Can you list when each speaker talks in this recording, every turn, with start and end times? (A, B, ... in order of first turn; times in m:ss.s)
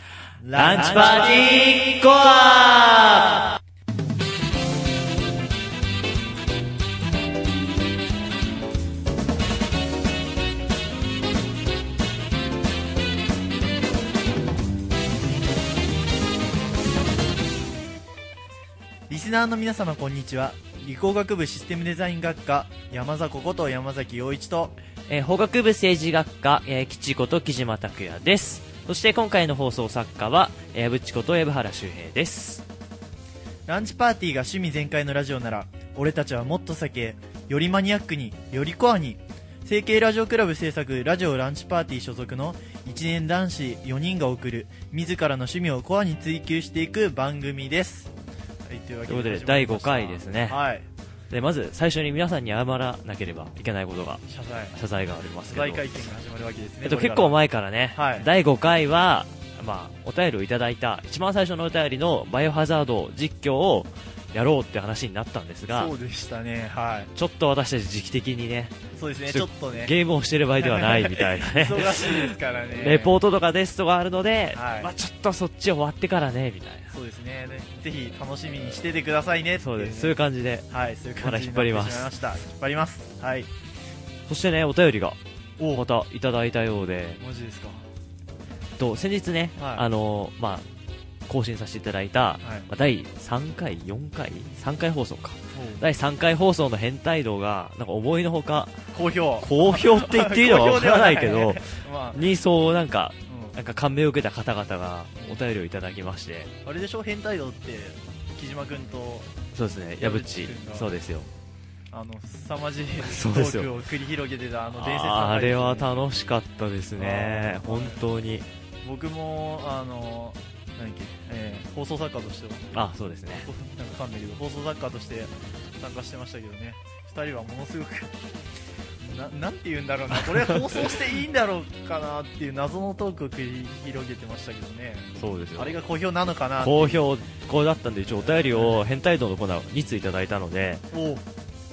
0:00.4-0:01.7 A
0:00.5-0:03.4 B
0:19.1-0:24.8 A
0:25.1-0:32.6 B
0:33.7-0:48.1 A
0:48.7-0:50.9 A
0:49.1-0:50.6 B
0:51.3-0:54.2 B
0:54.3-0:54.8 A
0:54.7-0:55.8 B
0:55.4-0:57.4 A
0:56.8-1:05.9 B
0:57.9-0:58.3 A
1:05.7-1:07.1 A
1:07.2-1:08.8 B
1:09.0-1:09.9 A
1:09.3-1:16.9 B
1:10.6-1:13.2 A
1:14.5-1:14.9 A
1:16.9-1:20.2 A
1:19.6-1:20.7 B
1:20.7-1:23.5 A
1:21.2-1:22.1 B
1:24.3-1:25.2 B
1:25.6-1:25.8 A
1:25.7-1:27.2 B
1:27.2-1:27.8 A
1:28.8-1:30.6 B
1:29.6-1:29.9 A
1:31.3-1:38.8 B
1:32.4-1:32.7 A
1:35.5-1:35.8 A
1:38.9-1:42.2 A
1:39.4-1:46.5 B
1:43.3-1:43.6 A
1:46.6-1:49.3 A
1:49.5-1:51.3 B
1:50.0-1:51.0 A
1:51.9-1:56.0 A
1:53.0-1:53.7 B
1:54.7-1:58.5 B
1:57.0-1:58.0 A
1:58.8-2:02.7 A
2:02.7-2:03.5 B
2:03.4-2:08.2 A
2:09.0-2:17.0 A
2:15.2-2:15.8 B
2:16.6-2:20.8 B
2:18.2-2:18.8 A
2:20.9-2:21.2 A